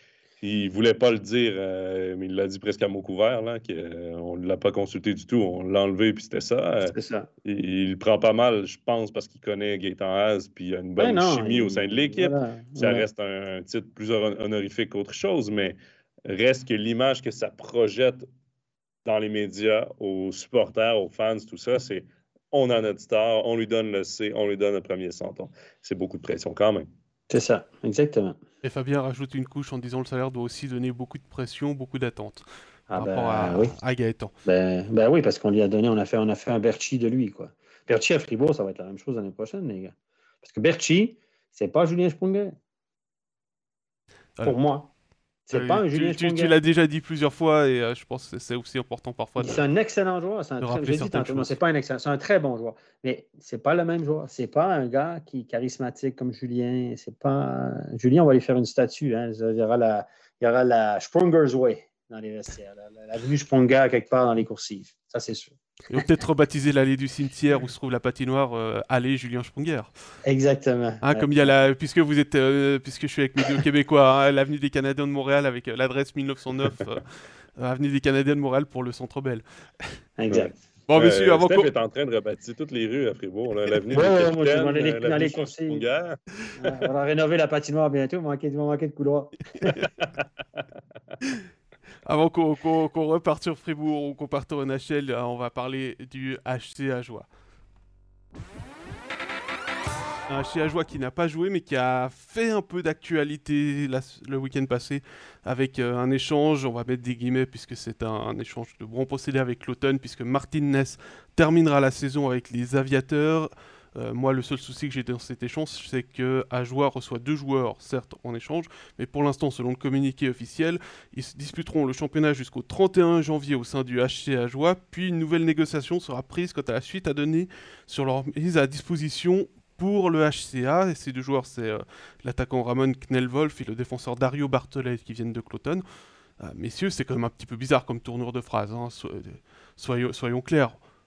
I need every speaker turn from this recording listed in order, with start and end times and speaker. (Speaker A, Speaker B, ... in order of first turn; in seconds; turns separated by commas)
Speaker A: 0.4-15.8, Speaker B: 6.9-7.3, Speaker B: 11.0-13.1, Speaker A: 16.3-18.2, Speaker A: 19.1-26.9, Speaker B: 27.3-28.4, Speaker C: 28.6-34.3, Speaker B: 32.9-33.7, Speaker B: 34.5-42.5, Speaker B: 44.4-44.9, Speaker B: 45.5-46.5, Speaker C: 45.5-49.6, Speaker B: 49.4-66.0, Speaker C: 50.6-51.5, Speaker C: 65.9-69.9, Speaker B: 70.2-71.5, Speaker C: 71.0-79.9, Speaker B: 80.2-80.5, Speaker A: 80.3-86.2, Speaker C: 80.9-81.7, Speaker B: 83.9-85.9, Speaker B: 86.6-89.8, Speaker C: 92.1-97.3, Speaker C: 100.3-135.8, Speaker C: 136.4-140.8